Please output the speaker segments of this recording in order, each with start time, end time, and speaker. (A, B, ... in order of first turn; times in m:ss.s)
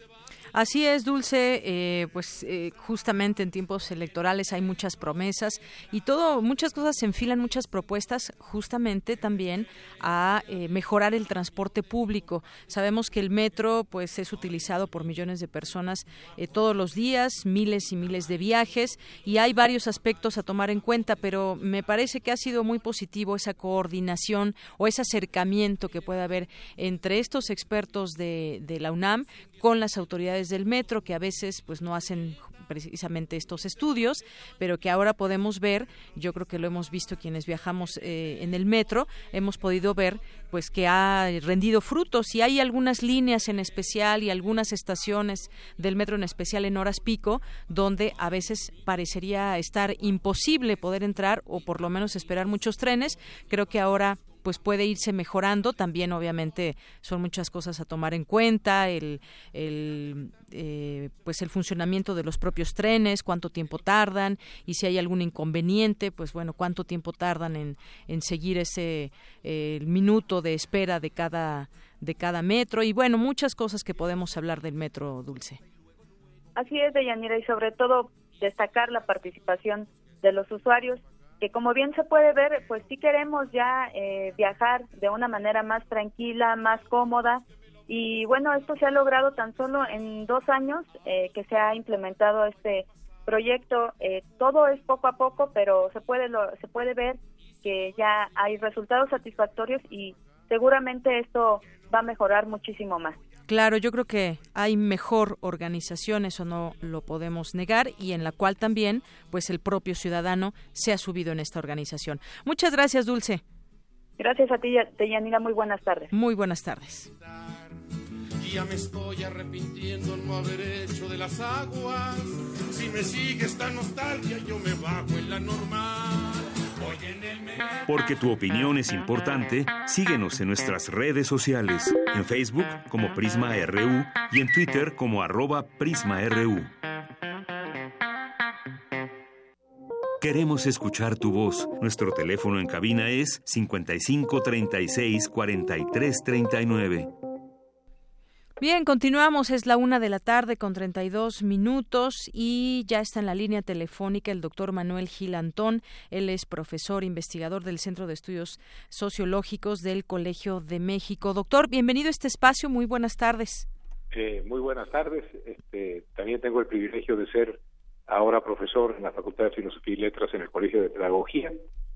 0:00.5-1:15.6 A
1:16.6-1:43.2 B
1:43.5-1:53.4 A
1:54.2-1:56.1 B
1:56.1-1:57.1 A
1:58.4-2:07.8 C
2:07.9-2:16.7 D
2:20.2-2:27.1 D
2:28.6-2:43.7 A
2:44.1-2:51.6 E